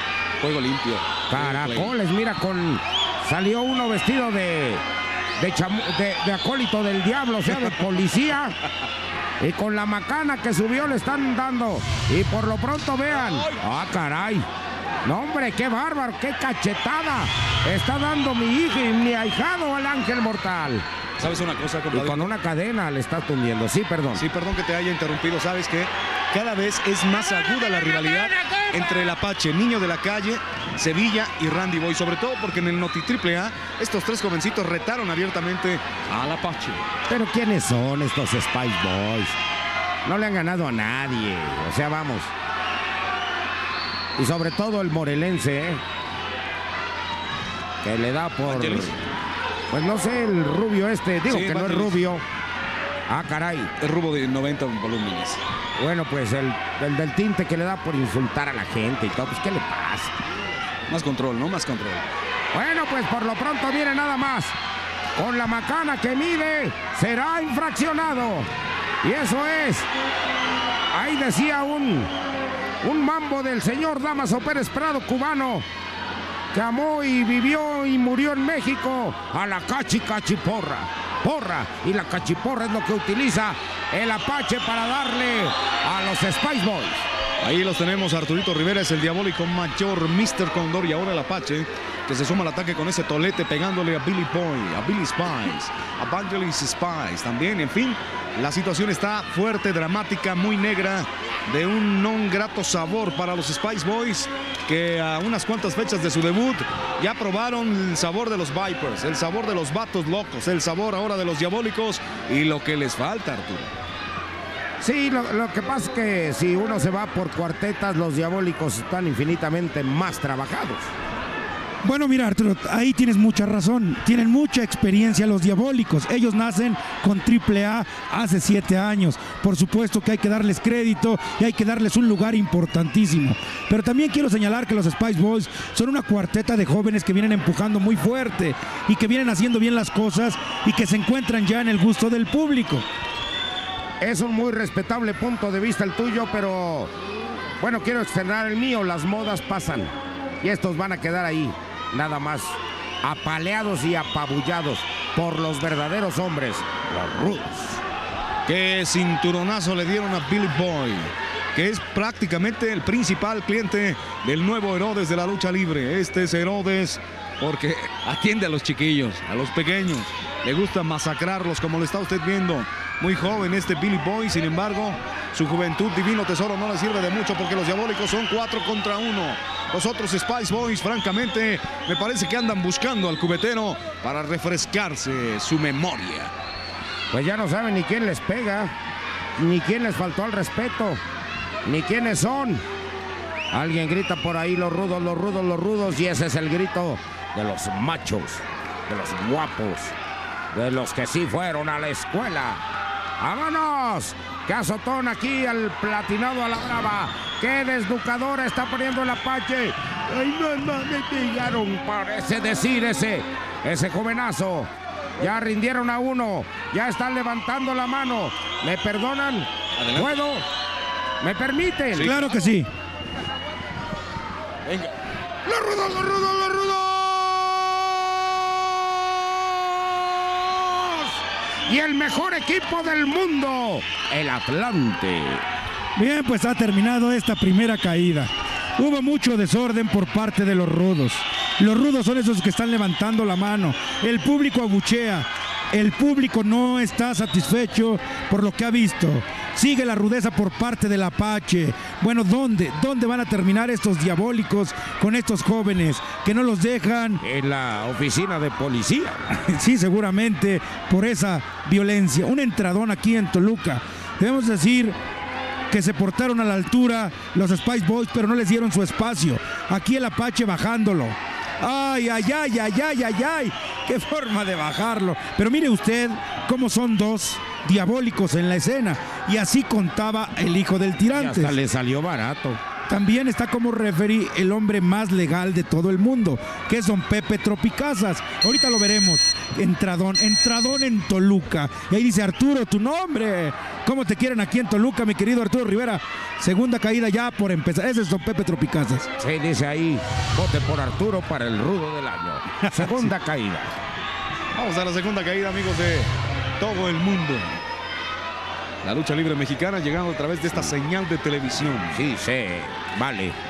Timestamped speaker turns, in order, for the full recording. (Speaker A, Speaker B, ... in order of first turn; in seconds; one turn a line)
Speaker A: 0.4-2.0
Speaker B: 1.3-4.8
Speaker B: 5.4-8.6
Speaker B: 9.4-14.5
Speaker A: 13.1-13.6
Speaker B: 15.1-20.9
Speaker A: 21.2-22.3
Speaker B: 21.9-24.2
Speaker A: 24.1-36.8
Speaker B: 37.1-39.4
Speaker B: 40.0-42.3
Speaker B: 44.2-45.8
Speaker B: 47.8-49.0
Speaker A: 48.5-49.0
Speaker B: 49.7-52.2
Speaker A: 51.3-52.0
Speaker B: 53.1-53.7
Speaker A: 53.8-55.4
Speaker B: 55.8-60.1
Speaker A: 60.9-62.1
Speaker B: 62.5-64.5
Speaker B: 65.2-68.5
Speaker B: 69.0-69.9
Speaker B: 70.9-72.1
Speaker B: 72.8-75.7
Speaker B: 76.5-87.1
Speaker A: 87.4-113.7
Speaker B: 114.8-120.9
Speaker C: 121.8-142.8
Speaker B: 144.0-146.9
Speaker B: 147.6-157.8
Speaker A: 158.5-186.3
Speaker B: 187.1-188.7
Speaker B: 189.4-191.0
Speaker B: 191.7-192.6
Speaker B: 193.5-199.9
Speaker B: 200.5-202.6
Speaker B: 203.2-220.4
Speaker A: 219.8-220.2
Speaker B: 221.2-222.1
Speaker C: 222.0-222.7
Speaker B: 225.5-227.7
Speaker B: 229.4-231.2
Speaker B: 231.7-235.4
Speaker C: 236.0-257.2
Speaker B: 257.2-259.3
Speaker C: 259.3-265.0
Speaker C: 265.7-281.6
Speaker B: 281.1-282.6
Speaker C: 282.9-299.1
Speaker B: 299.2-303.7
Speaker C: 302.7-303.1
Speaker A: 304.5-307.6
Speaker A: 308.8-312.1
Speaker B: 311.9-313.4